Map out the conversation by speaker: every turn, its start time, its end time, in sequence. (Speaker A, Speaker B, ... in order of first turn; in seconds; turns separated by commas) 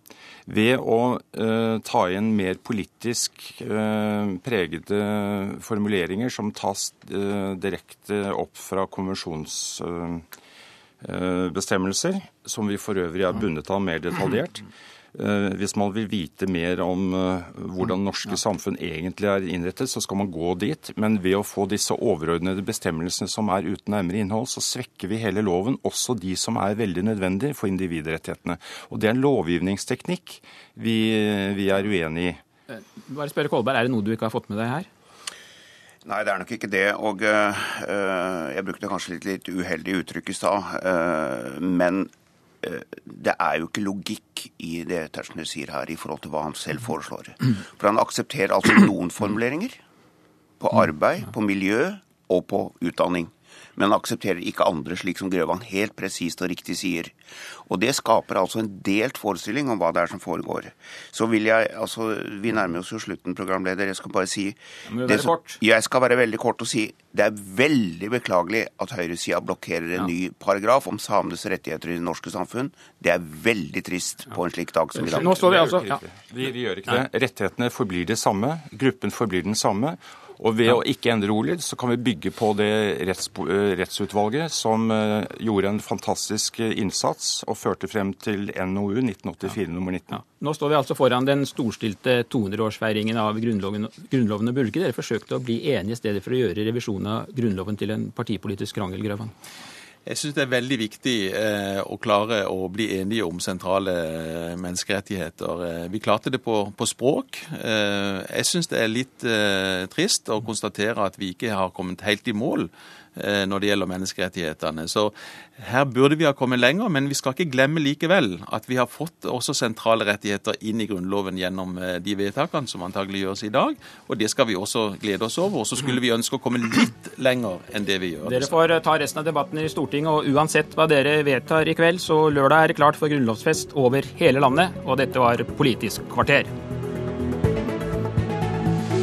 Speaker A: 0.5-10.2, Speaker A: 11.0-32.4, Speaker B: 32.7-34.9, Speaker C: 36.0-42.1, Speaker C: 42.6-49.8, Speaker C: 50.6-57.1, Speaker C: 57.6-75.5, Speaker B: 64.9-65.6, Speaker B: 75.0-75.9, Speaker A: 75.1-90.2, Speaker B: 90.2-99.3, Speaker D: 100.0-128.6, Speaker B: 128.2-136.5